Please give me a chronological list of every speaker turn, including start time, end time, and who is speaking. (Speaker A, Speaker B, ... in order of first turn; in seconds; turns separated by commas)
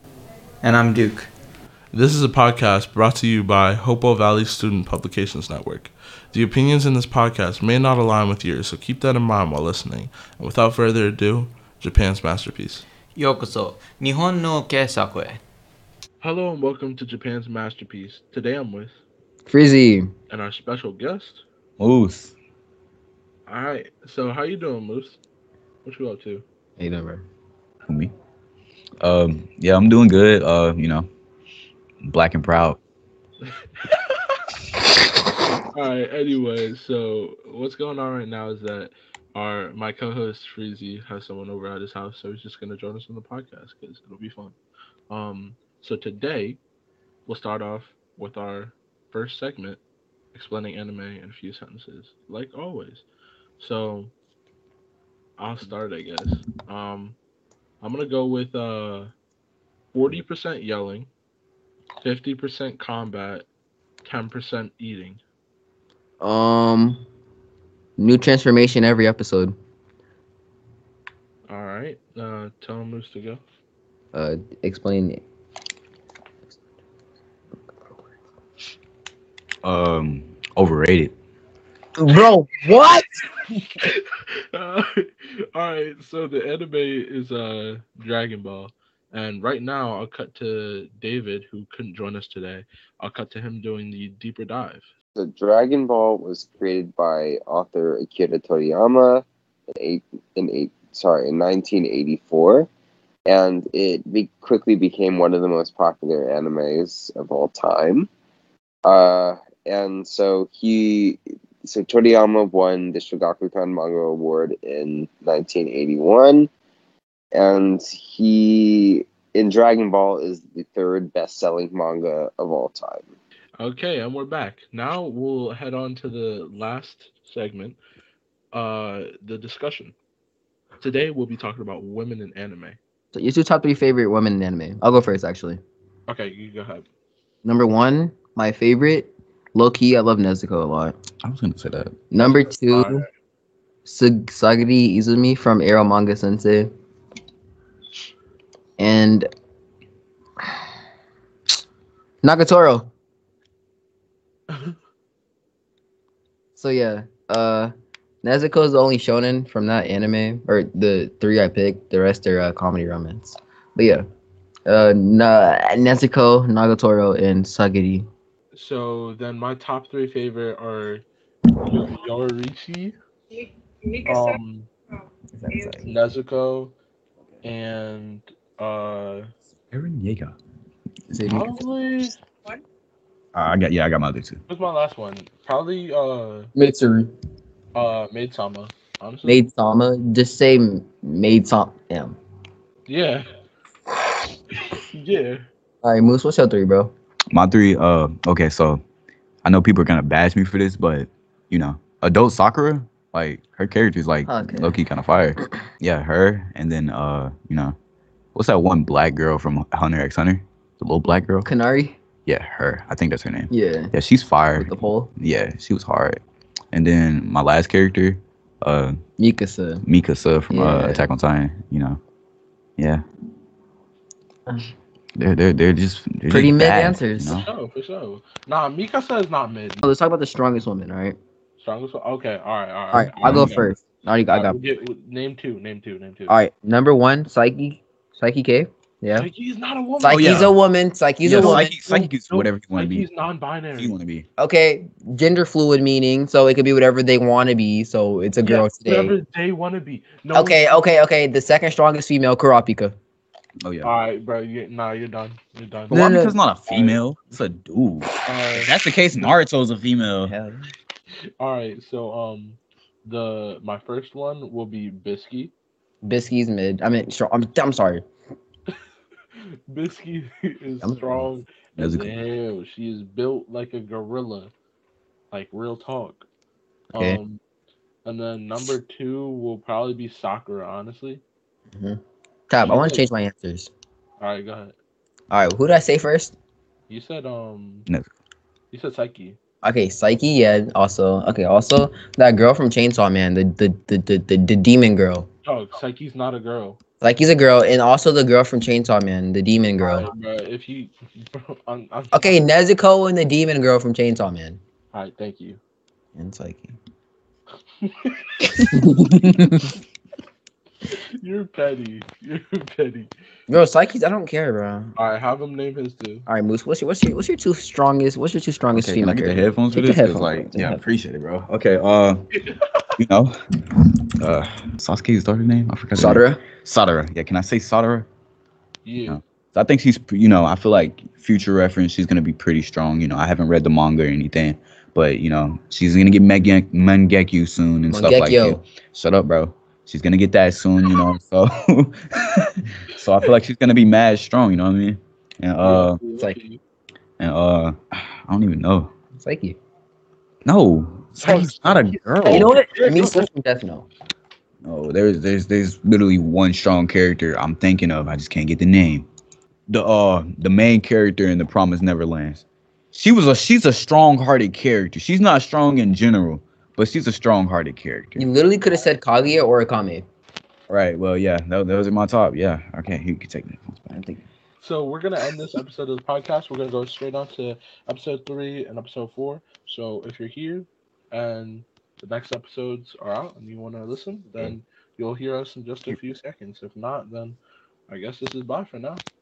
Speaker A: 0.6-1.3, Speaker B: 1.9-12.8, Speaker A: 13.1-15.4, Speaker B: 16.2-19.0, Speaker C: 19.5-20.1, Speaker B: 20.3-21.4, Speaker D: 21.8-22.3, Speaker B: 23.5-25.2, Speaker B: 25.8-26.4, Speaker C: 26.8-27.2, Speaker D: 27.9-28.1, Speaker D: 29.0-31.1, Speaker D: 32.0-32.8, Speaker B: 33.4-34.0, Speaker B: 35.7-44.5, Speaker B: 45.1-46.6, Speaker B: 47.2-49.8, Speaker B: 50.3-53.0, Speaker B: 53.6-54.1, Speaker B: 55.4-57.2, Speaker B: 57.8-59.1, Speaker B: 59.9-61.1, Speaker B: 62.0-63.5, Speaker B: 64.0-65.2, Speaker C: 66.2-67.0, Speaker C: 68.0-69.5, Speaker B: 71.5-73.4, Speaker C: 74.1-75.2, Speaker D: 79.6-81.1, Speaker C: 82.0-83.1, Speaker B: 83.8-94.8, Speaker E: 95.2-102.7, Speaker E: 103.3-108.1, Speaker E: 108.8-116.5, Speaker E: 117.3-123.1, Speaker B: 123.6-127.8, Speaker B: 128.5-129.9, Speaker B: 130.8-132.8, Speaker C: 133.1-135.6, Speaker B: 136.1-136.9, Speaker C: 137.4-140.9, Speaker D: 141.2-142.0, Speaker C: 142.1-143.0, Speaker B: 142.6-143.0, Speaker C: 143.8-146.7, Speaker C: 148.8-149.3, Speaker C: 152.2-152.9, Speaker C: 156.6-157.7, Speaker C: 158.2-164.0, Speaker C: 164.7-168.1, Speaker B: 168.5-171.0, Speaker B: 171.6-172.9, Speaker B: 174.0-174.7, Speaker C: 175.4-175.8, Speaker B: 175.8-176.7, Speaker B: 177.4-179.3, Speaker D: 179.7-180.3, Speaker C: 181.1-181.5, Speaker B: 181.3-182.2, Speaker D: 183.3-184.4, Speaker B: 184.5-186.5, Speaker C: 186.5-187.1, Speaker B: 187.7-189.4, Speaker C: 189.2-192.2, Speaker B: 192.9-193.2, Speaker B: 194.7-195.4, Speaker C: 195.8-196.9, Speaker D: 197.3-198.8, Speaker D: 199.4-207.8, Speaker C: 204.2-204.8, Speaker D: 208.3-211.5, Speaker C: 211.4-212.0, Speaker D: 212.2-216.2, Speaker C: 213.5-213.9, Speaker C: 214.5-215.1, Speaker D: 216.7-218.9, Speaker C: 219.2-219.8, Speaker D: 219.8-222.0, Speaker C: 220.5-221.1, Speaker D: 225.2-227.5, Speaker C: 226.3-227.5, Speaker B: 227.4-229.8, Speaker C: 229.8-231.2, Speaker B: 231.6-233.7, Speaker C: 232.9-234.6, Speaker D: 233.2-233.7, Speaker B: 234.3-236.4, Speaker C: 236.3-239.3, Speaker B: 239.1-240.5, Speaker C: 240.0-241.9, Speaker D: 240.1-240.5, Speaker D: 241.2-243.1, Speaker B: 241.3-243.9, Speaker D: 243.8-244.2, Speaker C: 244.4-249.1, Speaker B: 248.4-250.8, Speaker C: 250.3-252.9, Speaker D: 253.6-253.9, Speaker B: 253.8-257.0, Speaker C: 255.9-256.4, Speaker D: 255.9-260.3, Speaker B: 258.2-259.3, Speaker C: 260.3-260.7, Speaker B: 261.4-265.5, Speaker C: 266.0-268.0, Speaker B: 269.4-274.5, Speaker C: 270.8-271.3, Speaker D: 271.8-272.2, Speaker B: 275.3-276.2, Speaker C: 276.9-277.2, Speaker B: 277.0-277.4, Speaker B: 278.0-281.2, Speaker C: 282.5-283.7, Speaker B: 282.6-283.1, Speaker B: 284.2-284.8, Speaker C: 285.3-286.3, Speaker B: 286.9-287.9, Speaker B: 288.7-289.4, Speaker C: 289.6-295.3, Speaker B: 295.4-296.8, Speaker C: 297.0-300.1, Speaker B: 299.8-302.4, Speaker C: 302.1-304.6, Speaker B: 304.9-305.6, Speaker C: 306.1-306.7, Speaker B: 307.8-308.7, Speaker C: 308.6-309.7, Speaker B: 311.2-313.1, Speaker C: 313.5-314.9, Speaker B: 314.9-316.3, Speaker C: 316.3-320.8, Speaker D: 318.7-322.2, Speaker B: 322.4-322.6, Speaker D: 323.0-323.3, Speaker D: 324.2-328.1, Speaker C: 325.9-326.4, Speaker B: 328.8-329.2, Speaker D: 329.1-346.0, Speaker C: 337.9-338.6, Speaker B: 345.6-346.6, Speaker D: 347.2-348.9, Speaker C: 349.2-349.6, Speaker D: 350.4-352.5, Speaker B: 351.2-353.2, Speaker C: 352.3-353.9, Speaker D: 354.6-359.1, Speaker D: 359.7-368.2, Speaker C: 368.2-370.0, Speaker D: 370.7-374.2, Speaker B: 374.6-389.0